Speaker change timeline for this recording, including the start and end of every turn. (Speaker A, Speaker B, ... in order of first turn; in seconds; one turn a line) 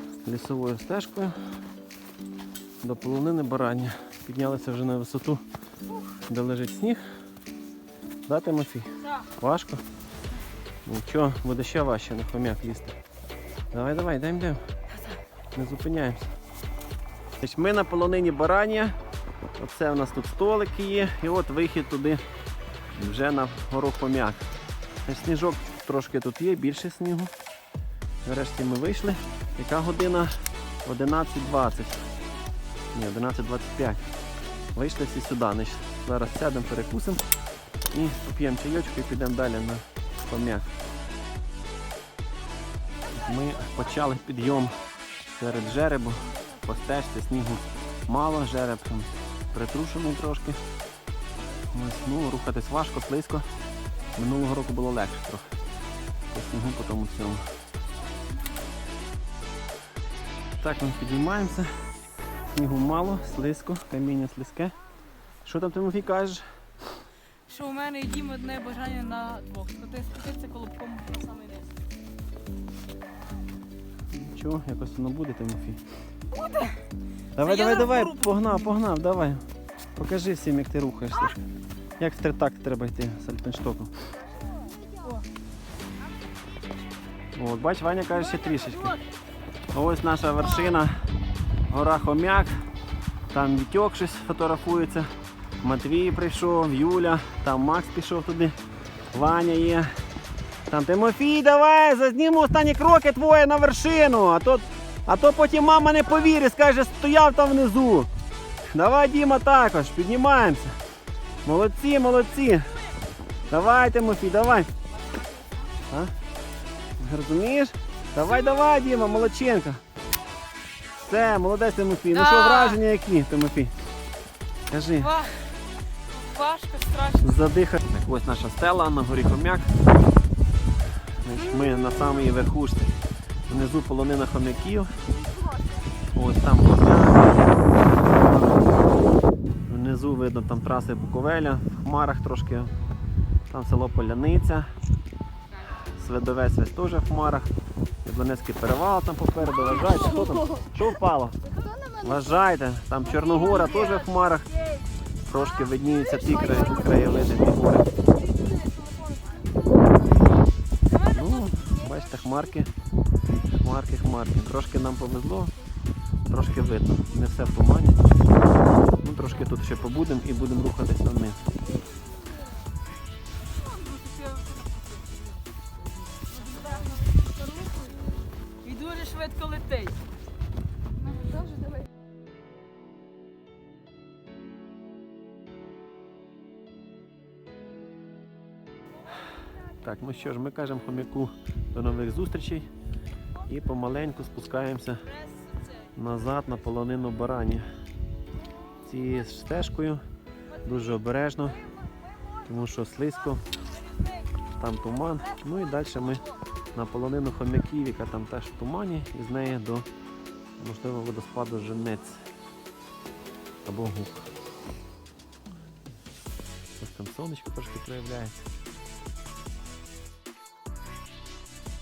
Speaker A: 0.2-1.4
Speaker A: 2.8-5.4
Speaker A: 6.2-7.0
Speaker A: 8.3-9.8
Speaker A: 10.8-12.9
Speaker A: 13.7-14.6
Speaker A: 15.5-16.3
Speaker A: 17.4-19.0
Speaker A: 19.6-22.2
Speaker A: 22.9-24.4
Speaker A: 25.0-27.3
Speaker A: 28.2-32.1
Speaker A: 32.9-34.0
Speaker A: 34.7-37.2
Speaker A: 37.9-40.7
Speaker A: 43.1-50.6
Speaker A: 51.7-53.4
Speaker A: 54.1-55.5
Speaker A: 56.3-57.4
Speaker A: 60.6-61.7
Speaker A: 62.5-64.7
Speaker A: 65.4-66.4
Speaker B: 67.5-71.7
Speaker A: 74.1-75.8
Speaker B: 76.3-76.8
Speaker A: 77.3-81.4
Speaker B: 77.4-78.4
Speaker A: 82.0-83.9
Speaker A: 87.3-89.0
Speaker A: 89.7-90.9
Speaker A: 91.7-92.5
Speaker A: 93.3-95.1
Speaker A: 95.6-98.5
Speaker A: 99.1-99.9
Speaker A: 100.7-108.1
Speaker A: 108.7-110.7
Speaker A: 111.4-112.7
Speaker A: 113.5-114.7
Speaker A: 117.0-119.8
Speaker A: 121.0-123.7
Speaker B: 122.1-122.8
Speaker A: 124.7-125.2
Speaker B: 125.0-127.4
Speaker A: 127.2-129.7
Speaker A: 131.2-132.9
Speaker A: 133.5-134.9
Speaker A: 136.1-138.7
Speaker A: 139.7-142.7
Speaker A: 143.5-144.7
Speaker A: 145.9-147.5
Speaker A: 148.0-151.4
Speaker A: 152.0-154.5
Speaker A: 155.3-157.9
Speaker A: 161.1-162.7
Speaker A: 163.4-165.5
Speaker A: 166.3-168.0
Speaker A: 169.0-171.4
Speaker B: 173.5-175.4
Speaker B: 176.1-177.9
Speaker B: 178.6-180.0
Speaker A: 189.8-192.7
Speaker A: 193.4-195.1
Speaker A: 195.9-197.7
Speaker A: 198.8-200.0
Speaker A: 200.6-201.6
Speaker A: 202.4-203.4
Speaker A: 204.6-209.9
Speaker A: 210.6-212.3
Speaker A: 213.7-214.3
Speaker A: 216.8-218.5